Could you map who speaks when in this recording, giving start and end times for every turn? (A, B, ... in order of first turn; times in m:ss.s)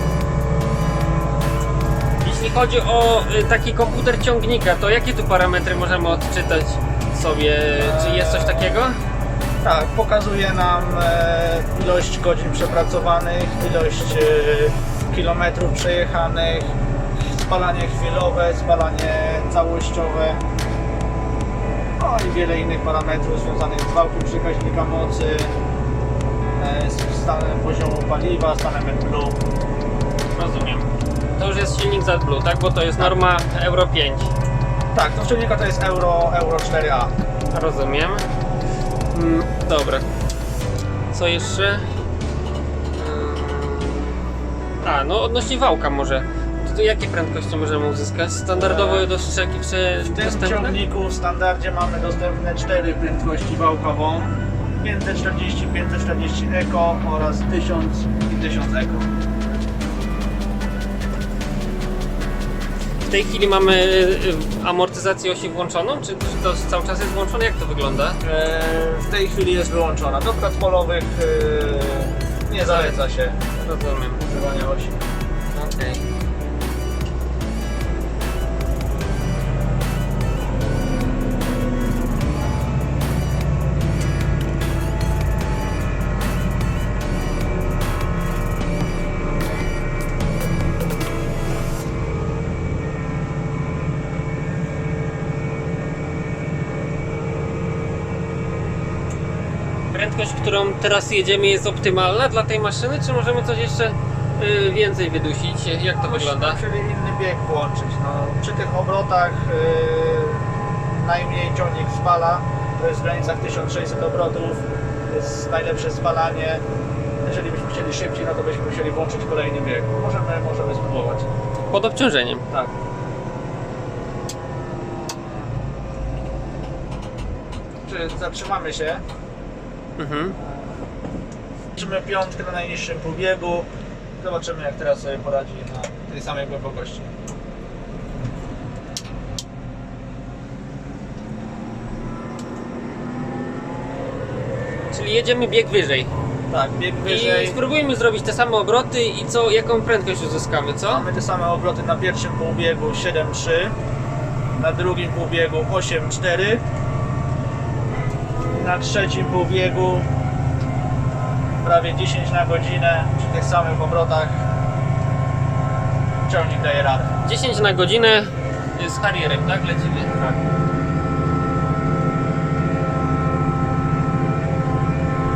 0:02.2-0:09.0 A
0:07.8-0:08.8 B
0:09.6-0:16.8 B
0:17.3-0:20.4 B
0:22.0-0:25.5 B
0:26.6-0:29.4 B
0:30.4-0:34.3 A
0:34.9-0:37.1 B
0:37.5-0:38.2 A
0:39.1-0:40.1 A
0:41.1-0:41.9 A
0:43.0-0:44.0 A
0:44.8-0:50.8 A
0:48.5-0:49.1 B
0:50.0-0:59.1 B
1:03.1-1:08.2 A
1:08.2-1:13.4 B
1:12.6-1:13.0 A
1:13.5-1:14.2 A
1:14.2-1:15.0 B
1:15.5-1:16.0 A
1:39.9-1:46.6 A
1:46.0-1:56.6 B
1:57.2-2:01.3 B
2:01.7-2:02.5 A
2:07.8-2:09.0 B
2:10.0-2:10.4 A
2:10.3-2:10.8 B
2:11.7-2:17.1 B
2:24.9-2:26.1 A
2:26.5-2:27.6 B
2:27.0-2:31.1 A
2:30.9-2:33.8 B
2:34.5-2:36.6 B
2:38.5-2:40.1 B
2:41.6-2:44.4 B
2:46.2-2:47.1 B
2:47.2-2:50.4 A